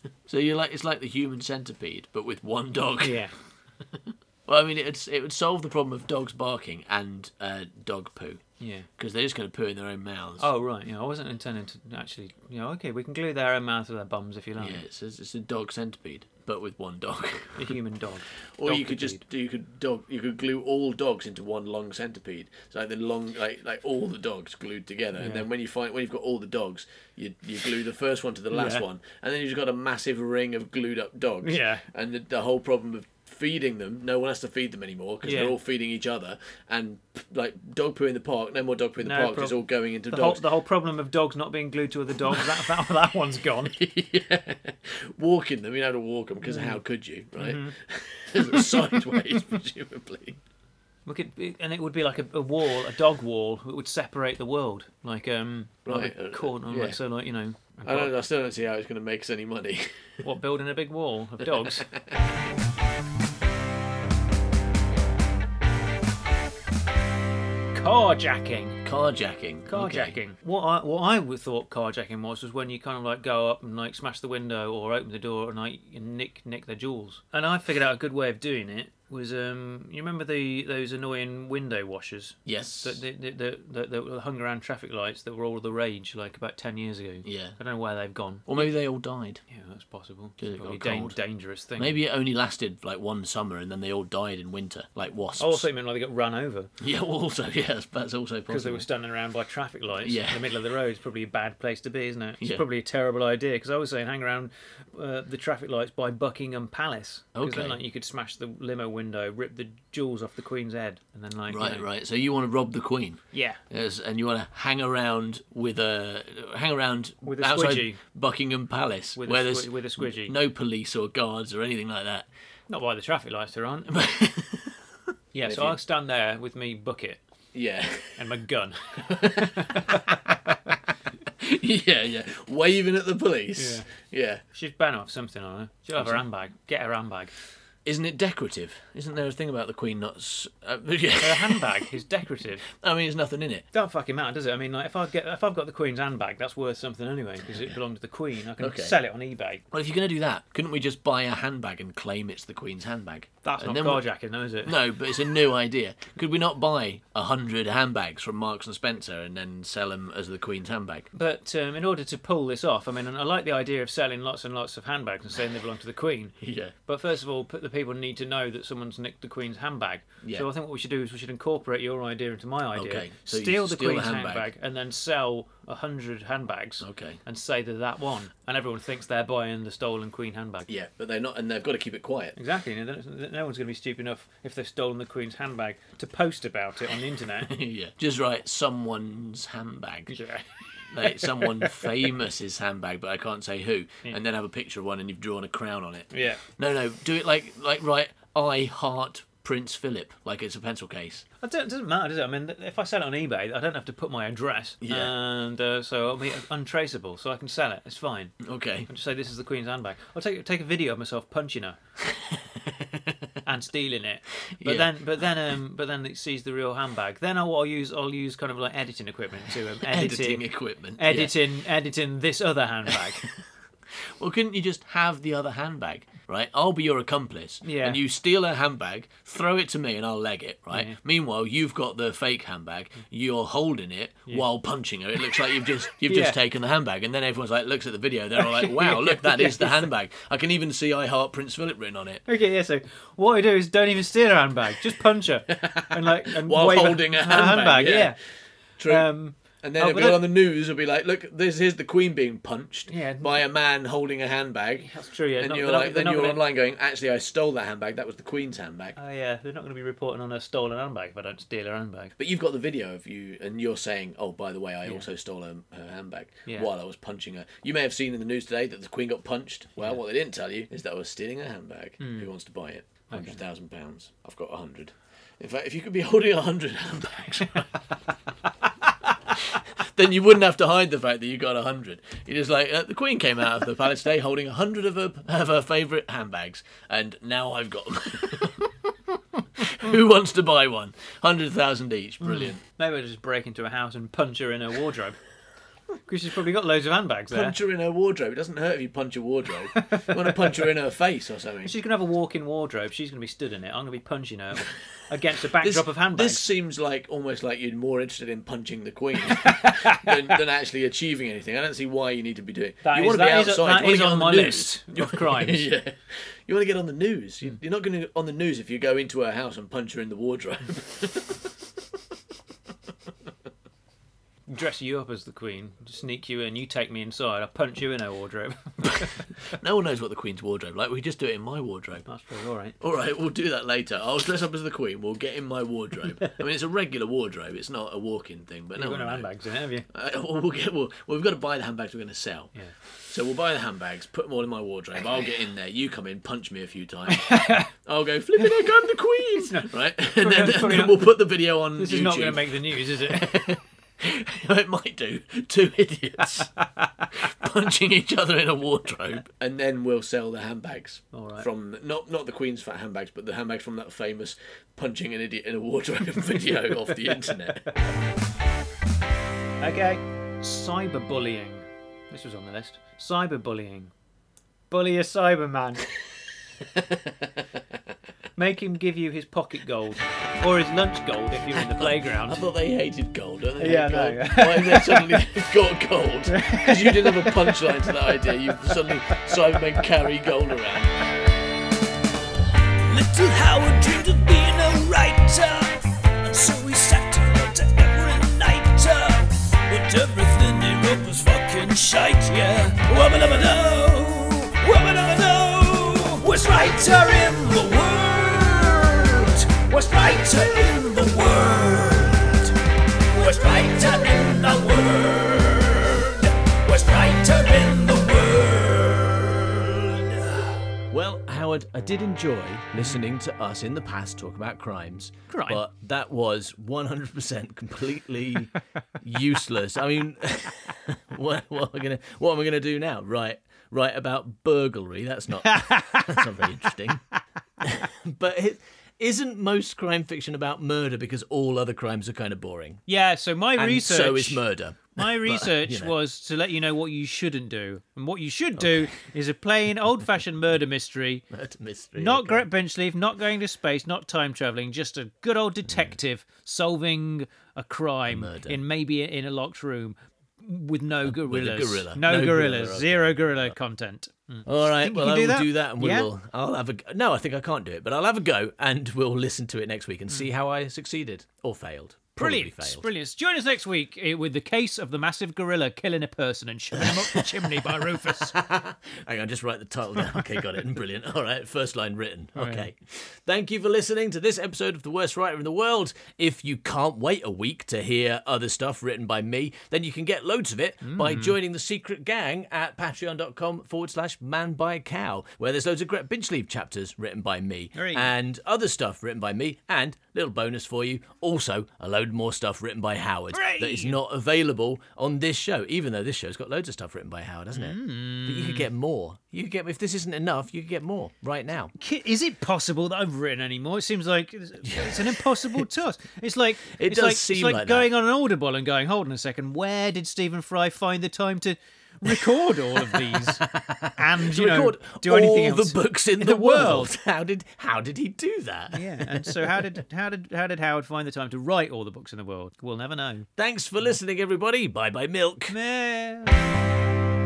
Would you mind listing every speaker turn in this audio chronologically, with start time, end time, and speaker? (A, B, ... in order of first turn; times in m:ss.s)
0:00.2-0:03.2 A
0:03.0-0:03.4 B
0:03.8-0:10.5 A
0:08.6-0:08.9 B
0:10.4-0:14.8 B
0:14.6-0:17.8 A
0:17.6-0:19.2 B
0:18.5-0:40.4 A
0:25.2-0:25.4 B
0:28.5-0:28.8 B
0:31.4-0:31.8 B
0:35.2-0:35.6 B
0:39.0-0:43.7 B
0:42.3-0:42.7 A
0:43.6-0:50.4 A
0:46.4-0:46.8 B
0:47.4-0:47.8 B
0:48.4-0:48.7 B
0:51.1-0:58.1 B
0:55.8-0:57.0 A
0:57.8-1:00.2 A
1:00.2-1:01.9 B
1:01.6-1:02.3 A
1:07.7-1:08.8 B
1:08.8-1:10.2 A
1:09.7-1:28.7 B
1:22.4-1:23.0 A
1:27.2-1:27.6 A
1:28.4-1:29.4 A
1:29.5-1:31.9 B
1:30.4-1:31.2 A
1:31.8-1:35.7 A
1:35.4-1:36.7 B
1:36.8-1:38.9 A
1:38.5-1:51.9 B
1:40.0-1:40.5 A
1:47.4-1:47.8 A
1:51.5-2:02.3 A
1:53.3-1:53.6 B
1:57.2-1:58.0 B
1:59.2-2:00.3 B
2:02.7-2:04.0 B
2:03.9-2:04.8 A
2:05.3-2:07.2 B
2:05.4-2:05.8 A
2:07.5-2:08.3 A
2:08.2-2:10.6 B
2:09.0-2:10.3 A
2:10.9-2:14.4 A
2:13.6-2:13.9 B
2:14.5-2:17.3 B
2:16.0-2:16.2 A
2:17.8-2:21.9 A
2:21.2-2:22.6 B
2:22.6-2:23.7 A
2:23.7-2:29.6 B
2:27.4-2:27.8 A
2:28.6-2:29.0 A
2:29.7-2:34.1 A
2:33.4-2:34.8 B
2:34.6-2:41.1 A
2:41.1-3:00.7 B
2:46.4-2:46.7 A
2:50.2-2:50.5 A
2:52.7-2:54.5 A
2:56.8-2:57.2 A
3:00.7-3:02.4 A
3:02.4-3:07.5 B
3:07.5-3:10.3 A
3:10.1-3:11.9 B
3:10.9-3:21.2 A
3:16.1-3:16.4 B
3:21.4-3:31.8 B
3:24.8-3:25.1 A
3:28.4-3:28.9 A
3:32.1-3:33.2 A
3:33.4-3:43.4 B
3:34.5-3:34.9 A
3:39.8-3:41.4 A
3:43.9-4:02.2 A
3:47.6-3:48.0 B
3:50.7-3:51.0 B
3:56.0-3:56.4 B
3:58.4-3:59.9 B
4:02.3-4:10.2 B
4:05.5-4:19.0 A
4:12.9-4:13.4 B
4:14.8-4:16.4 B
4:19.0-4:22.1 B
4:22.2-4:38.0 A
4:26.4-4:26.7 B
4:32.0-4:32.3 B
4:33.0-4:33.4 B
4:39.3-4:48.9 A
4:49.6-4:52.6 A
4:52.2-4:55.2 B
4:56.0-4:57.6 B
4:57.3-5:01.7 A
4:59.8-5:00.6 B
5:01.6-5:06.4 B
5:05.6-5:21.5 A
5:09.4-5:10.1 B
5:12.8-5:15.7 B
5:24.5-5:29.4 B
5:28.9-5:32.1 A
5:32.0-5:32.8 B
5:32.8-5:39.4 A
5:38.8-5:39.9 B
5:39.9-5:56.6 A
5:47.1-5:47.7 B
5:48.4-5:48.6 B
5:49.3-5:51.1 B
5:51.8-5:53.6 B
5:56.6-5:57.0 B
5:57.1-6:07.6 A
6:01.1-6:01.5 B
6:07.0-6:07.7 B
6:09.6-6:13.9 B
6:14.7-6:15.9 B
6:16.7-6:17.4 A
6:18.4-6:22.5 B
6:21.5-6:30.9 A
6:23.6-6:25.2 B
6:26.3-6:27.9 B
6:28.7-6:29.3 B
6:32.8-6:52.5 C
6:53.1-7:00.6 C
7:00.9-7:17.0 A
7:05.3-7:05.6 B
7:15.4-7:16.2 B
7:17.6-7:22.9 A
7:22.9-7:31.2 B
7:23.6-7:25.9 A
7:28.6-7:29.0 A
7:31.3-7:32.5 A
7:32.0-7:46.1 B
7:35.7-7:36.0 A
7:38.1-7:38.6 A
7:41.0-7:43.6 A
7:44.4-7:52.9 A
7:52.2-7:58.3 B
7:56.8-8:31.7 A
8:02.3-8:02.7 B
8:10.8-8:11.3 B
8:17.7-8:18.1 B
8:23.3-8:24.0 B
8:27.5-8:28.7 B
8:31.8-8:46.9 B
8:34.6-8:35.6 A
8:36.7-8:37.9 A
8:42.9-8:49.6 A
8:48.7-8:53.3 B
8:53.4-8:55.6 A
8:55.5-8:56.5 B